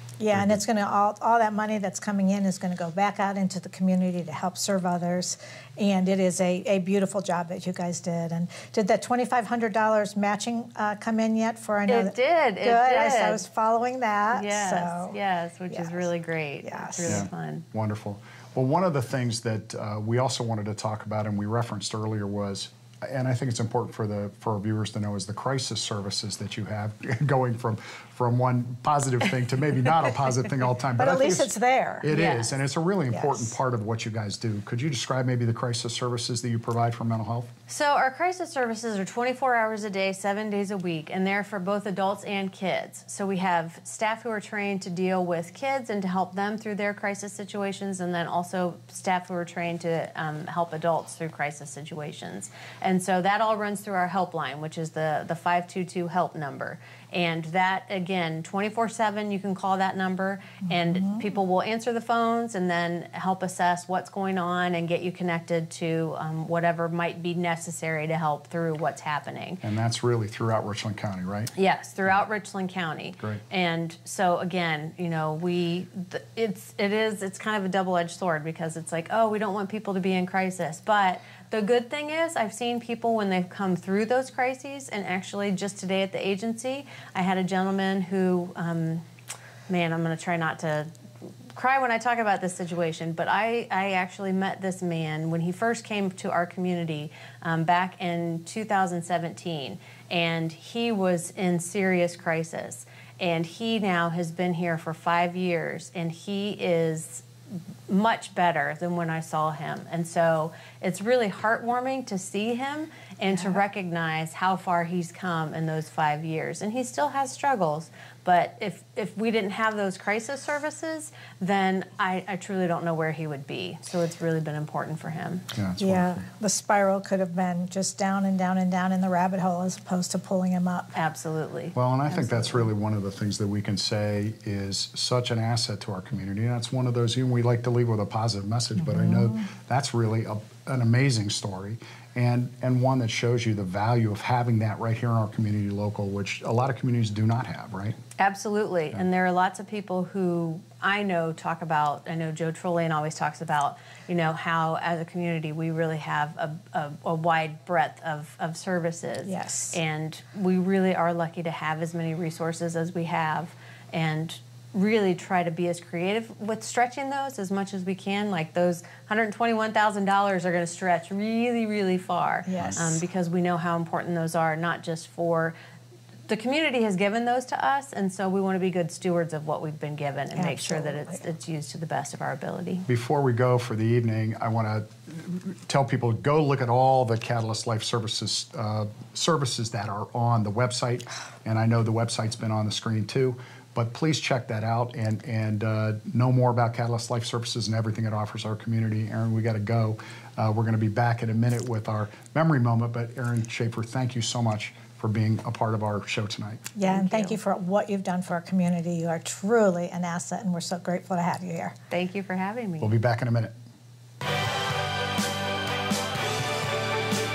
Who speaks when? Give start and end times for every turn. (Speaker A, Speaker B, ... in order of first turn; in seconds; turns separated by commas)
Speaker A: 0.2-15.2, Speaker B: 0.3-0.6, Speaker C: 11.9-13.4, Speaker C: 14.3-17.6, Speaker A: 15.7-16.1, Speaker A: 16.6-17.3, Speaker B: 17.0-37.5, Speaker A: 31.0-32.1, Speaker C: 32.1-32.5, Speaker A: 33.1-33.5, Speaker C: 37.7-69.6, Speaker A: 60.7-61.2, Speaker B: 69.6-71.5, Speaker C: 71.5-89.0, Speaker C: 89.7-90.9, Speaker C: 91.5-107.2, Speaker C: 107.9-125.5, Speaker A: 113.3-113.6, Speaker B: 125.5-126.2, Speaker A: 125.8-130.9, Speaker C: 130.9-132.6, Speaker B: 131.7-148.0, Speaker A: 138.8-139.4, Speaker C: 148.2-175.5, Speaker A: 159.2-159.8, Speaker A: 172.4-173.0, Speaker C: 176.3-182.8, Speaker A: 180.3-181.2, Speaker B: 182.9-206.7, Speaker A: 206.7-211.7, Speaker C: 206.8-207.4, Speaker C: 211.9-212.9, Speaker B: 212.8-213.5